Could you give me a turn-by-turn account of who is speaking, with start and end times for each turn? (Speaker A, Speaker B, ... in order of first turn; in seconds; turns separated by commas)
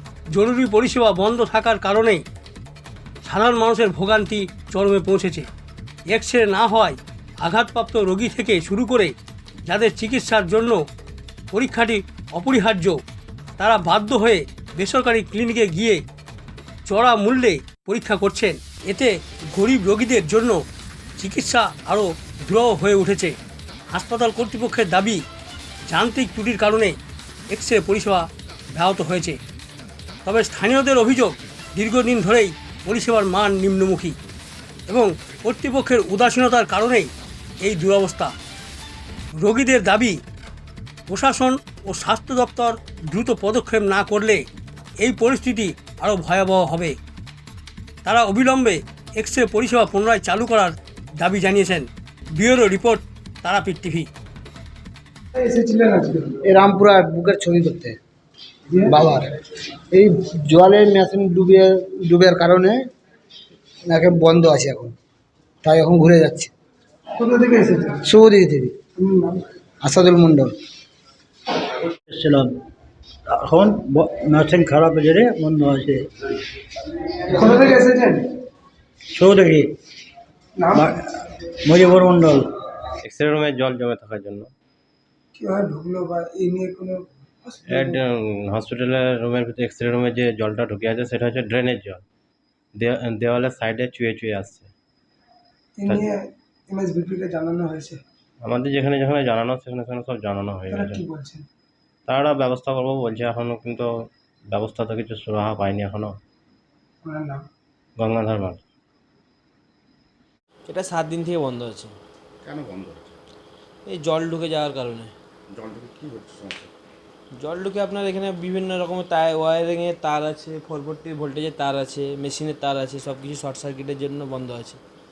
Speaker A: 0.3-2.2, Speaker A: 3.2-5.5, Speaker A: 6.1-9.1, Speaker A: 9.7-10.8, Speaker A: 11.5-13.0, Speaker A: 13.6-16.0, Speaker A: 16.9-20.6, Speaker A: 21.2-23.4, Speaker A: 23.9-25.2, Speaker A: 25.9-27.0, Speaker A: 27.5-29.4, Speaker A: 30.2-34.2, Speaker A: 34.9-37.1, Speaker A: 37.6-38.3, Speaker A: 39.4-40.2, Speaker A: 41.1-44.5, Speaker A: 45.0-47.0, Speaker A: 48.0-54.1, Speaker B: 55.3-56.4, Speaker C: 56.4-58.0, Speaker B: 58.7-59.2, Speaker C: 58.9-59.3, Speaker C: 59.9-62.8, Speaker C: 63.9-65.0, Speaker C: 65.6-66.5, Speaker B: 67.1-68.0, Speaker C: 68.0-68.8, Speaker B: 69.0-69.5, Speaker C: 69.8-70.5, Speaker D: 71.8-72.6, Speaker D: 73.3-76.1, Speaker B: 77.2-78.2, Speaker D: 79.1-79.7, Speaker B: 80.6-80.8, Speaker D: 80.8-82.5, Speaker E: 83.0-84.5, Speaker B: 85.3-88.0, Speaker E: 87.7-92.0, Speaker E: 92.8-94.7, Speaker B: 95.8-98.0, Speaker E: 98.5-101.0, Speaker B: 100.7-101.5, Speaker E: 102.1-103.9, Speaker E: 104.5-106.1, Speaker B: 107.0-107.5, Speaker E: 108.0-108.6, Speaker F: 110.7-111.9, Speaker G: 112.4-113.2, Speaker F: 113.9-115.1, Speaker G: 115.5-116.7, Speaker F: 117.4-124.8